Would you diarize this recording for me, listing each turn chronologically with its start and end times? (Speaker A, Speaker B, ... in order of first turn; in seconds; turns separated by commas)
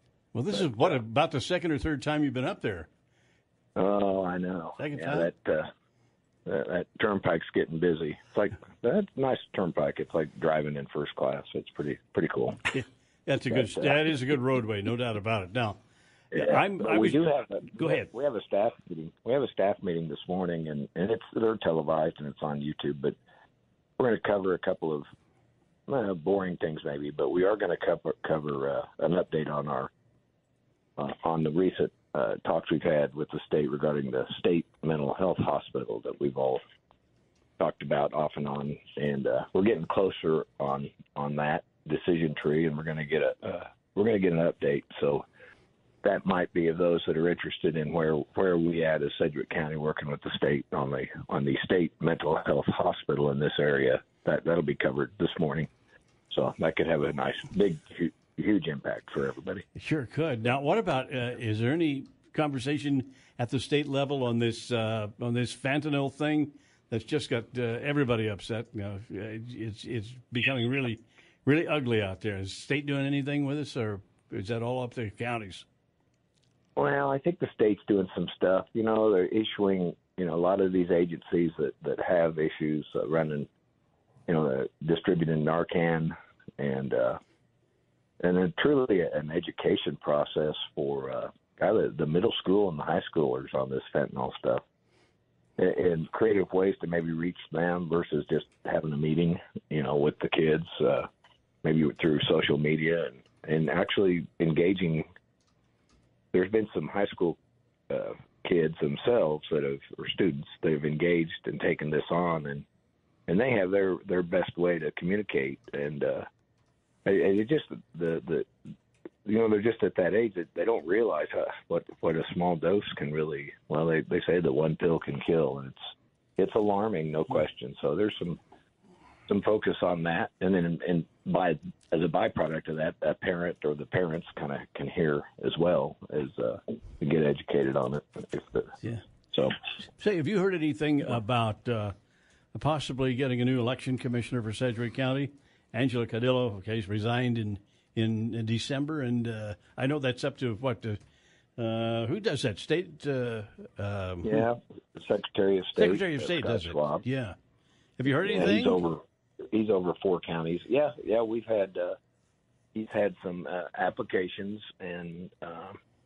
Speaker A: 0.3-2.9, Speaker B: 0.5-1.0, Speaker B: 3.8-5.7, Speaker A: 4.8-5.3, Speaker B: 6.5-12.6, Speaker A: 12.7-15.8, Speaker B: 13.5-14.1, Speaker B: 16.3-23.2, Speaker A: 16.4-17.2, Speaker A: 17.8-18.1, Speaker B: 24.0-25.1, Speaker B: 25.9-29.9, Speaker B: 31.0-36.6, Speaker B: 37.6-45.3, Speaker B: 46.0-55.7, Speaker B: 56.3-59.6, Speaker A: 59.8-75.7, Speaker B: 76.8-83.5, Speaker B: 84.3-87.2, Speaker B: 88.2-94.6, Speaker B: 95.6-101.1, Speaker B: 101.6-105.1, Speaker B: 106.3-107.4, Speaker B: 107.9-112.6, Speaker B: 113.3-116.3, Speaker B: 117.1-118.5, Speaker B: 119.2-125.8, Speaker B: 126.4-128.4, Speaker B: 129.3-138.7, Speaker A: 140.0-141.9, Speaker A: 142.5-151.0, Speaker A: 151.6-154.5, Speaker B: 154.2-157.0, Speaker A: 155.8-157.3, Speaker A: 158.0-158.8, Speaker B: 158.2-159.0, Speaker B: 159.5-162.0, Speaker B: 162.8-165.8